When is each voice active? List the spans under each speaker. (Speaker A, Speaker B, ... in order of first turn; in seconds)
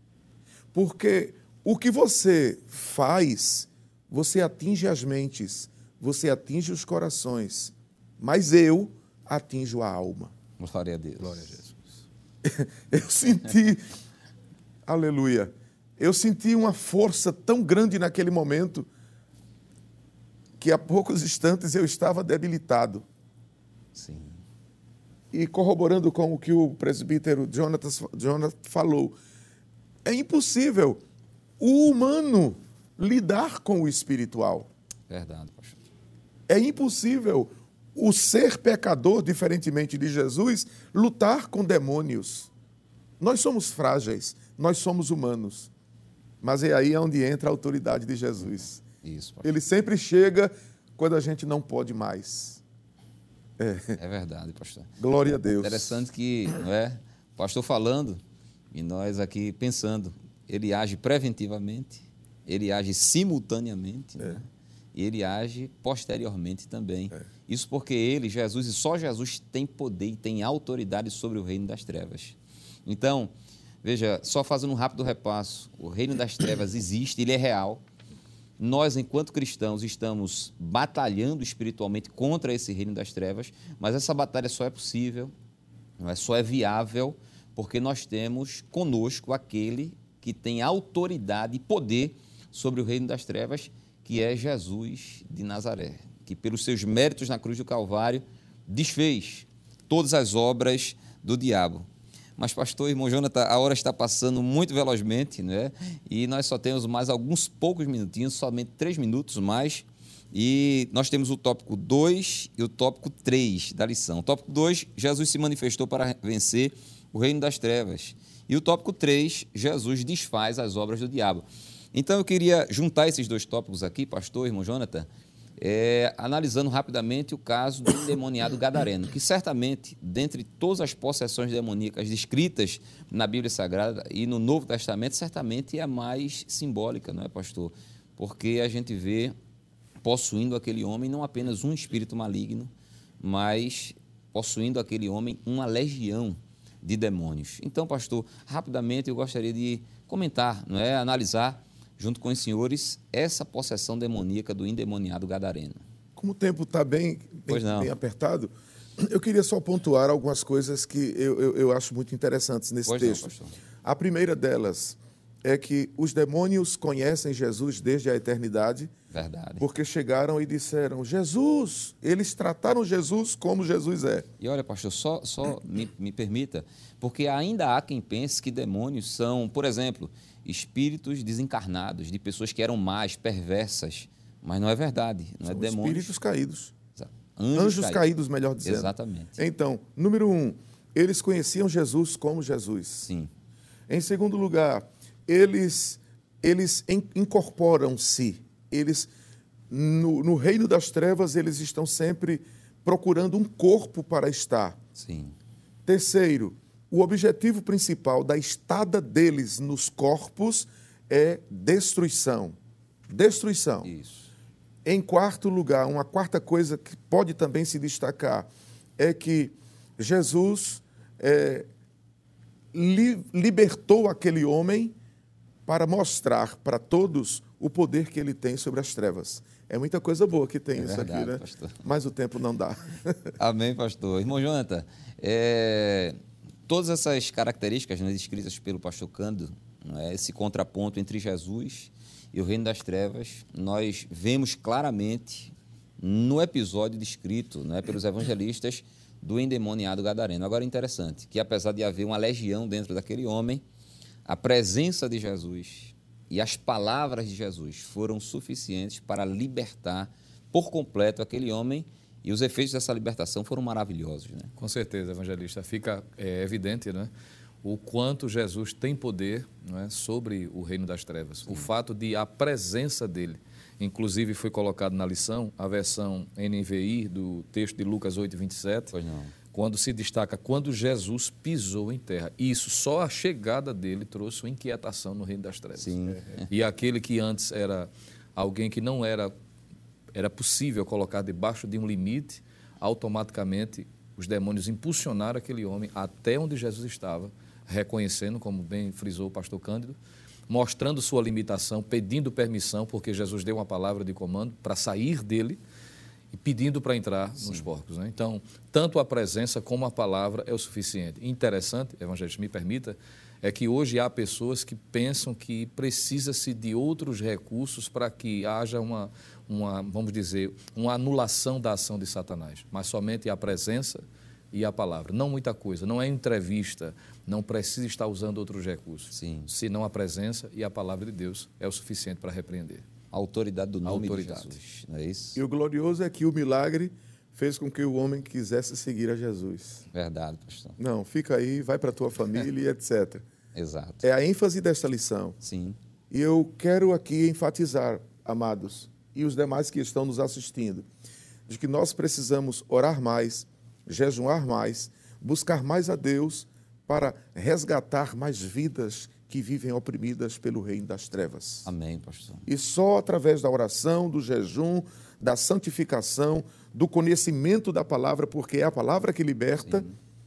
Speaker A: 0.7-10.3, 12.4-13.8, 14.8-18.9, 20.6-23.0, 25.3-29.1, 30.0-31.0, 31.6-34.7, 36.5-42.5, 43.2-45.7, 46.4-48.8, 49.4-52.6, 53.6-54.0, 55.0-56.0, 156.2-163.3, 163.8-168.9, 169.6-174.3, 185.4-186.7, 187.5-193.1, 193.9-199.1, 199.7-204.8, 205.8-212.6, 213.1-213.9, 214.8-218.5, 219.0-221.7, 222.7-224.9, 225.7-233.3, 335.4-339.9, 340.8-343.2, 344.0-345.4, 346.1-350.9, 351.5-361.7, 362.5-369.9
Speaker B: 10.6-11.7, 23.9-24.4, 35.1-35.8, 49.0-49.5, 54.0-73.3, 73.8-77.8, 78.6-85.3, 86.0-139.3, 140.0-155.8, 157.5-157.9, 162.8-163.6, 169.1-169.7, 174.4-186.1, 186.9-188.1, 188.6-189.4, 193.0-193.3, 204.9-205.3, 213.8-214.3, 230.8-231.8, 233.4-253.6, 254.2-264.5, 278.9-279.3, 285.8-286.5, 307.4-307.7, 329.1-329.5, 333.1-335.4, 339.9-340.8, 343.5-344.1, 345.4-345.8, 361.6-362.4, 369.6-370.0
Speaker C: 264.6-267.1, 267.6-278.9, 279.5-289.3, 290.1-300.0, 300.5-305.6, 306.3-332.8, 333.8-334.6